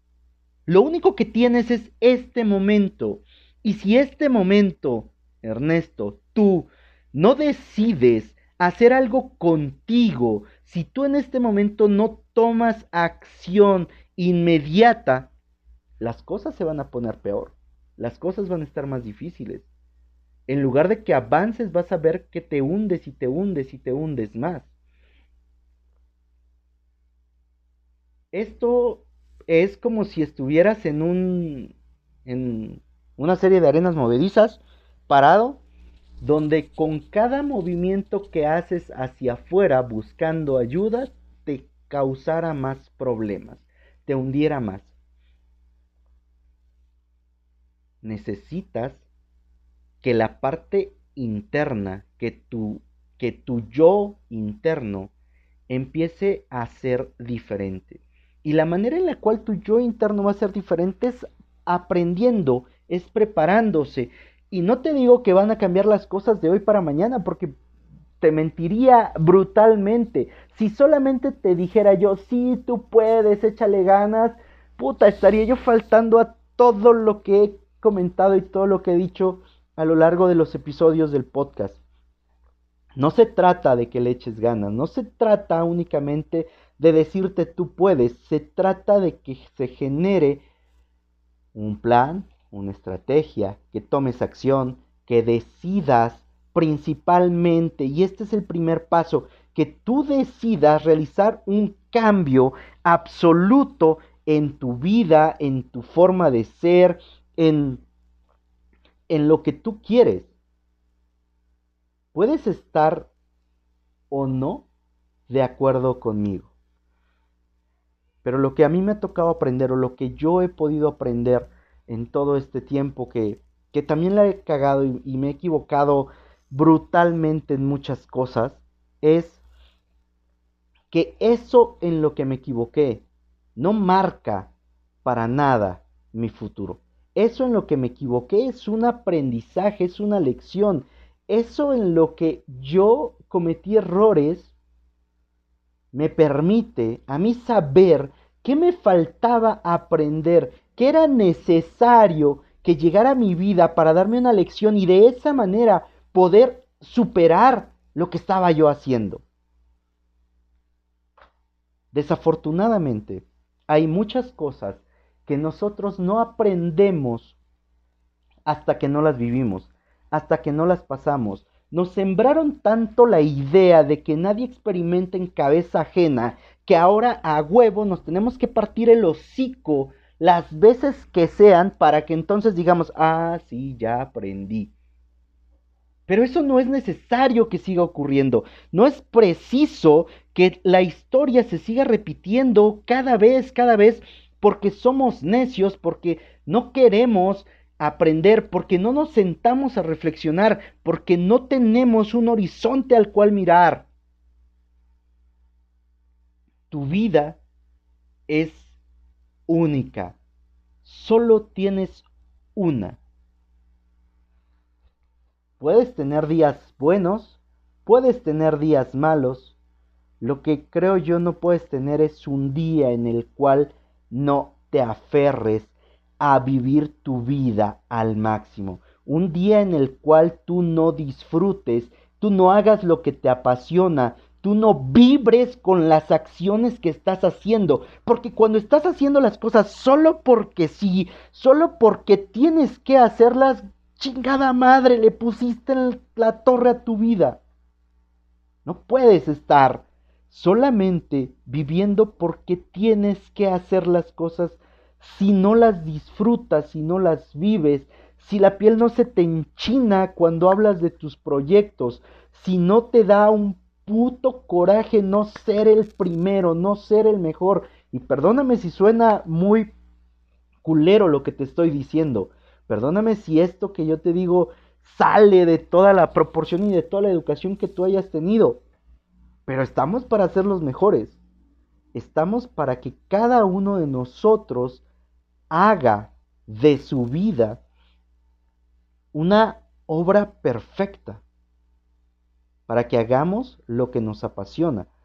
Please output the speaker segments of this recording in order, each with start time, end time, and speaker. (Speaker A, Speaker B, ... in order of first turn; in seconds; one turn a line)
Speaker A: 0.7-15.3
Speaker A: 16.0-19.7
Speaker A: 20.5-24.7
Speaker A: 28.3-31.7
Speaker A: 32.2-35.6
Speaker A: 36.2-44.9
Speaker A: 48.0-49.0
Speaker A: 50.0-55.1
Speaker A: 55.7-67.5
Speaker A: 68.2-81.8
Speaker A: 83.0-90.4
Speaker A: 91.5-107.8
Speaker A: 109.1-110.3
Speaker A: 112.1-113.1
Speaker A: 114.1-114.7
Speaker A: 115.3-116.5
Speaker A: 118.2-129.4
Speaker A: 130.9-133.0
Speaker A: 133.6-134.5
Speaker A: 135.0-144.5
Speaker A: 145.9-159.2
Speaker A: 161.9-167.3
Speaker A: 168.4-184.7
Speaker A: 186.1-203.9
Speaker A: 206.7-207.4
Speaker A: 208.3-208.8
Speaker A: 209.5-210.2
Speaker A: 210.8-213.0
Speaker A: 215.6-219.5
Speaker A: 220.2-247.4
Speaker A: 248.6-269.7
Speaker A: 270.6-278.6
Speaker A: 279.5-281.2
Speaker A: 281.9-284.8
Speaker A: 285.5-287.6
Speaker A: 289.1-291.2
Speaker A: 292.7-294.9